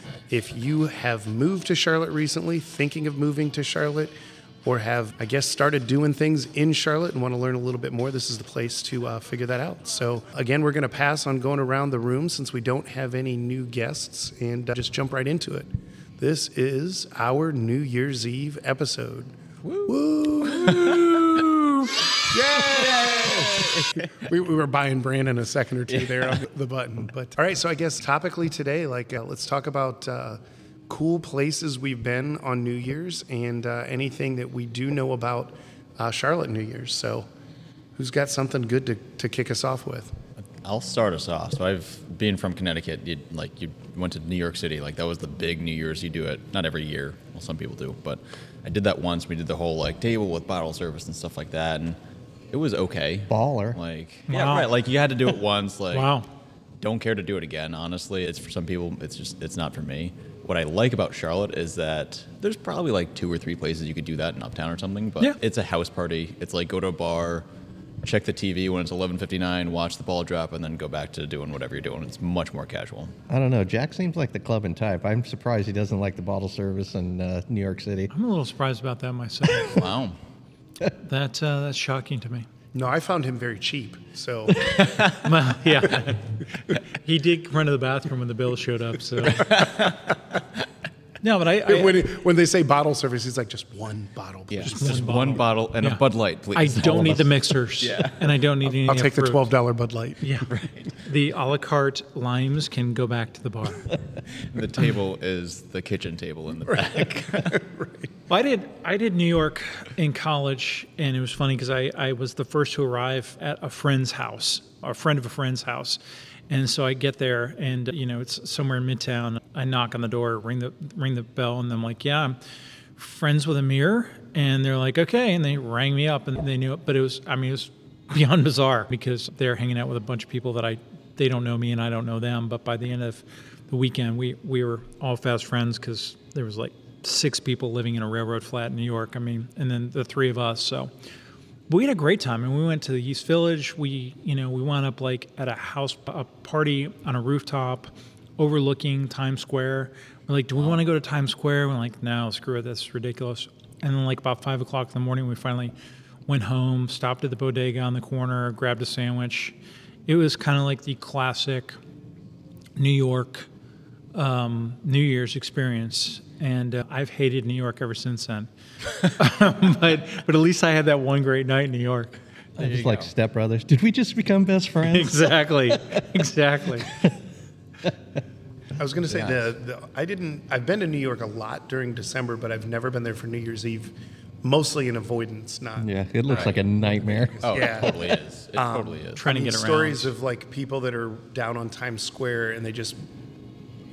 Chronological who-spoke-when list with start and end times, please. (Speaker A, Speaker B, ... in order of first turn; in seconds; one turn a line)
Speaker A: 0.3-4.1
Speaker A: 4.6-19.3
Speaker B: 19.6-24.3
Speaker A: 19.9-37.3
Speaker B: 25.9-26.4
Speaker A: 38.0-40.1
Speaker B: 40.5-52.0
Speaker B: 52.5-56.2
Speaker C: 53.3-53.8
Speaker D: 54.3-54.7
Speaker D: 55.9-56.3
Speaker B: 56.8-67.5
Speaker B: 68.0-73.1
Speaker C: 73.3-78.1
Speaker D: 78.1-79.8
Speaker B: 79.6-80.2
Speaker D: 81.0-82.5
Speaker A: 82.7-84.6
Speaker B: 84.8-85.1
Speaker D: 85.2-89.6
Speaker B: 89.2-90.2
Speaker D: 91.2-92.1
Speaker A: 91.7-95.0
Speaker B: 94.5-98.3
Speaker D: 94.6-96.0
Speaker D: 96.5-99.5
Speaker A: 98.7-100.5
Speaker D: 100.2-103.9
Speaker B: 100.5-100.9
Speaker B: 104.3-107.5
Speaker A: 106.7-108.1
Speaker D: 108.3-122.4
Speaker D: 123.0-140.9
Speaker D: 141.7-155.7
Speaker D: 156.3-159.5
Speaker D: 160.1-161.8
Speaker D: 162.8-163.5
Speaker D: 164.1-168.5
Speaker D: 169.1-172.1
Speaker C: 172.6-175.9
Speaker B: 172.6-173.1
Speaker D: 174.8-176.9
Speaker A: 178.8-193.0
Speaker C: 179.1-179.5
Speaker C: 185.8-187.8
Speaker B: 186.3-186.6
Speaker B: 187.4-189.2
Speaker D: 189.2-190.1